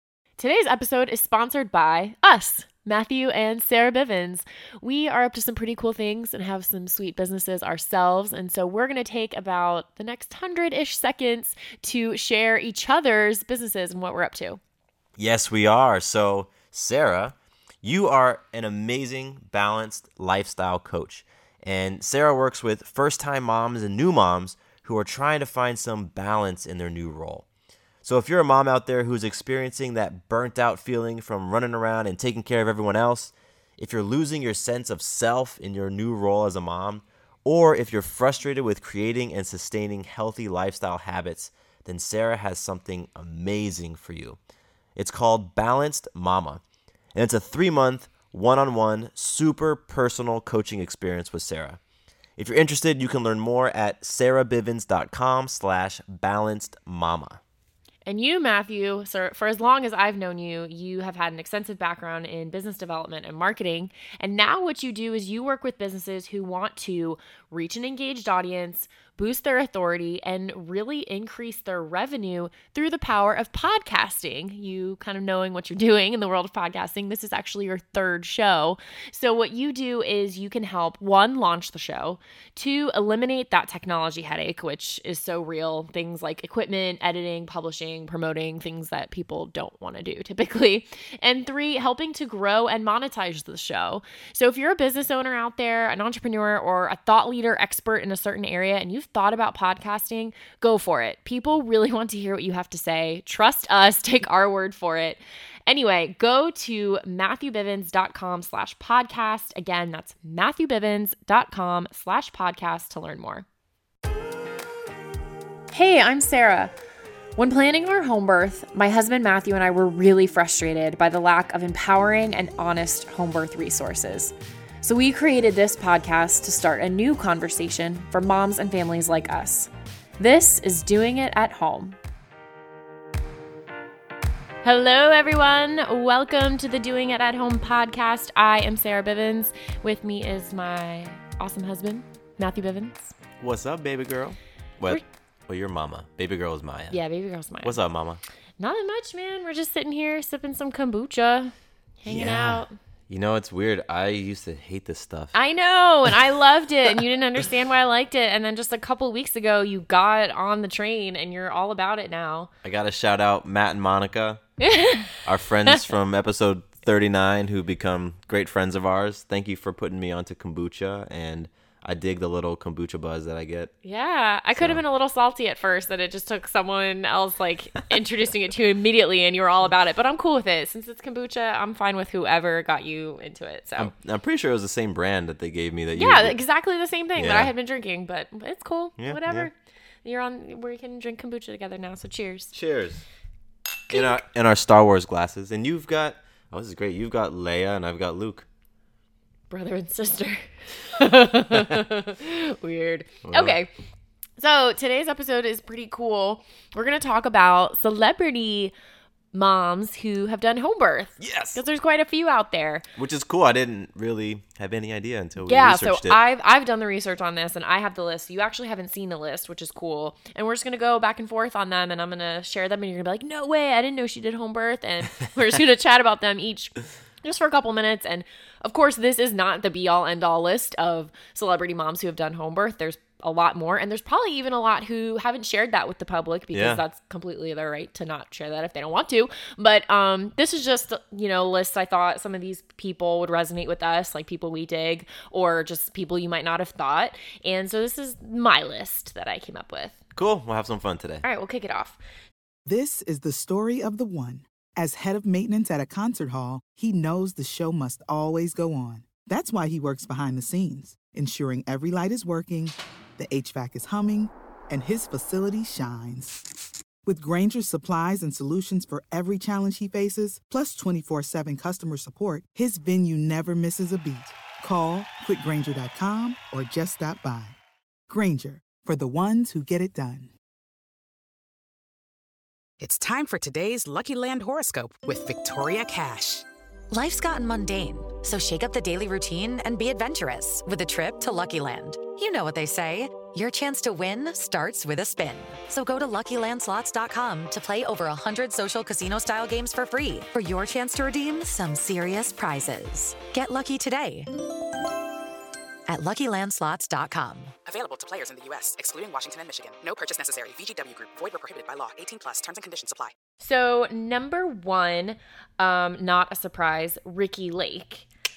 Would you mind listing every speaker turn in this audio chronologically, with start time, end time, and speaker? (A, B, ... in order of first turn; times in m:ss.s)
0:00.4-0:14.6 A
0:15.2-0:27.4 B
0:28.0-0:44.4 B
0:45.0-0:46.6 B
0:47.1-0:51.8 B
0:52.4-0:57.4 B
0:58.0-1:53.4 A
1:55.7-1:56.7 A
1:57.4-2:12.0 A
2:14.6-2:23.1 A
2:23.4-2:27.0 B
2:26.9-2:27.8 A
2:27.6-2:28.2 B
2:28.6-2:32.7 A
2:32.0-2:35.3 B
2:35.3-2:42.5 A
2:42.6-2:44.4 B
2:44.6-2:45.2 A
2:45.2-2:53.7 B
2:53.8-3:03.9 A
2:54.5-2:54.8 B
3:03.8-3:06.4 B
3:05.9-3:12.5 A
3:07.1-3:07.5 B
3:09.0-3:09.5 B
3:12.5-3:13.0 B
3:13.9-3:14.2 A
3:13.9-3:18.4 B
3:19.5-3:23.7 A
3:23.2-3:23.6 B
3:24.4-3:28.7 A
3:29.3-3:32.8 A
3:31.2-3:31.6 B
3:33.0-3:36.2 B
3:35.4-4:10.0 A
3:56.5-3:56.8 B
4:10.1-4:11.2 B
4:11.2-4:12.0 A
4:12.6-4:26.4 C
4:27.0-4:37.6 C
4:38.1-4:40.3 C
4:46.9-5:04.3 D
5:05.9-5:07.5 D
5:07.7-5:13.1 E
5:13.4-5:18.0 A